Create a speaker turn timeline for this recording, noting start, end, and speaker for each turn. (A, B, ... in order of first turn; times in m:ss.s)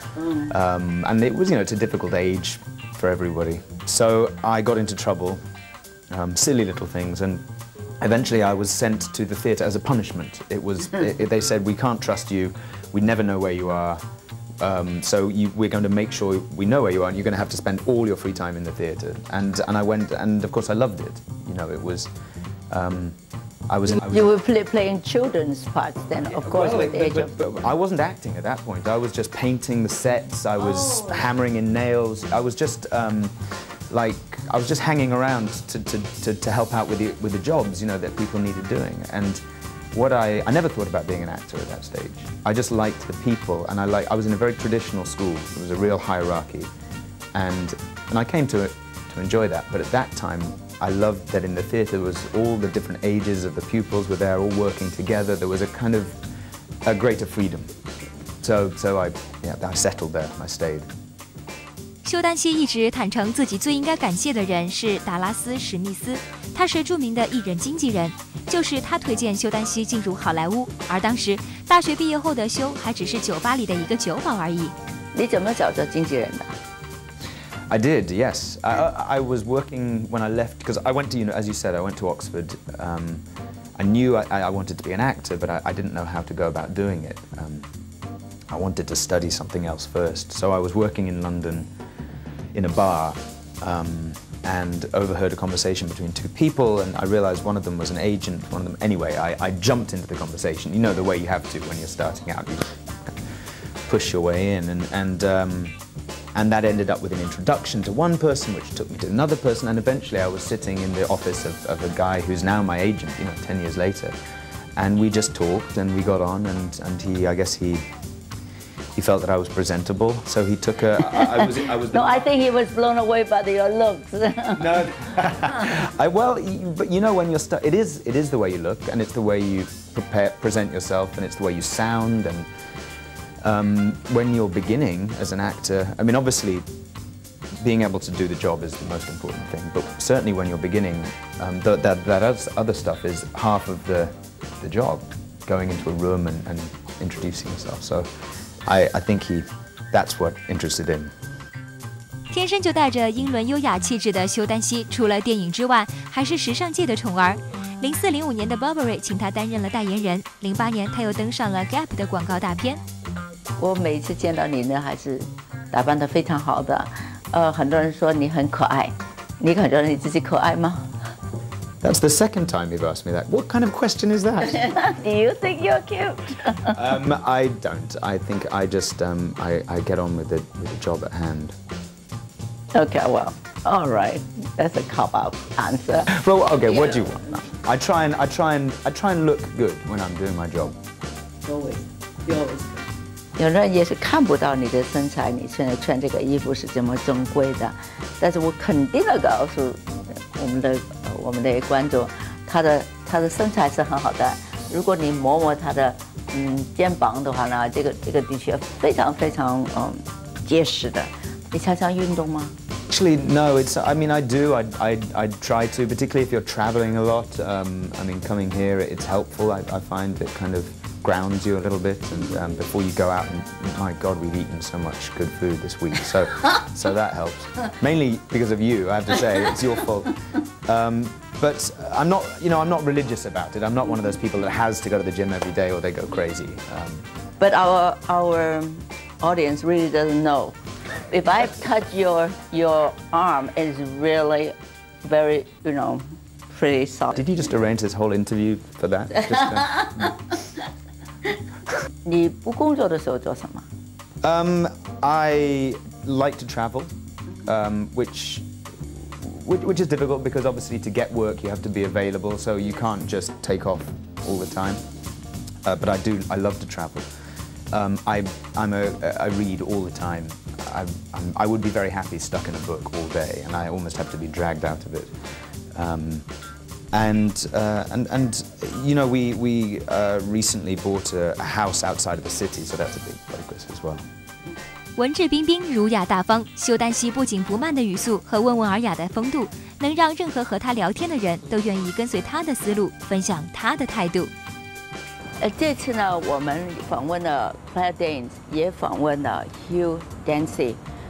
0:00.2-0:00.5 A
0:00.4-0:05.4 B
0:06.1-0:07.4 B
0:08.0-0:14.0 B
0:14.6-0:22.1 B
0:22.7-0:23.2 B
0:23.7-0:24.3 B
0:23.9-0:27.3 A
0:26.4-0:33.3 B
0:33.9-0:39.4 B
0:39.9-0:46.7 B
0:47.3-0:56.2 B
0:56.8-0:57.7 B
0:58.4-1:00.9 B
1:02.0-1:14.7 C
1:15.1-1:16.5 A
1:17.7-1:23.2 B
1:23.8-1:27.7 B
1:28.5-1:31.7 B
1:32.5-1:43.1 B
1:43.8-1:45.8 B
1:46.3-1:54.1 B
1:54.8-1:57.8 B
1:58.9-2:02.3 B
2:01.1-2:04.9 A
2:04.6-2:12.5 B
2:13.4-2:16.6 B
2:17.6-2:28.1 B
2:28.6-2:31.1 B
2:32.3-2:42.8 C
2:43.6-2:50.9 A
2:51.8-2:54.6 B
2:54.5-2:56.8 A
2:56.7-3:01.6 B
3:02.7-3:06.1 A
3:06.1-3:10.8 B
3:06.6-3:07.5 A
3:11.4-3:32.5 A
3:32.9-3:57.0 B
3:57.4-4:00.6 A
4:01.1-4:07.2 A
4:07.1-4:10.2 B
4:12.0-4:13.6 A
4:14.2-4:16.9 B
4:17.4-4:24.8 B
4:25.6-4:27.1 B
4:27.7-4:35.1 B
4:35.7-4:36.2 B
4:36.9-4:44.0 B
4:45.0-4:54.3 C
4:55.4-5:00.8 A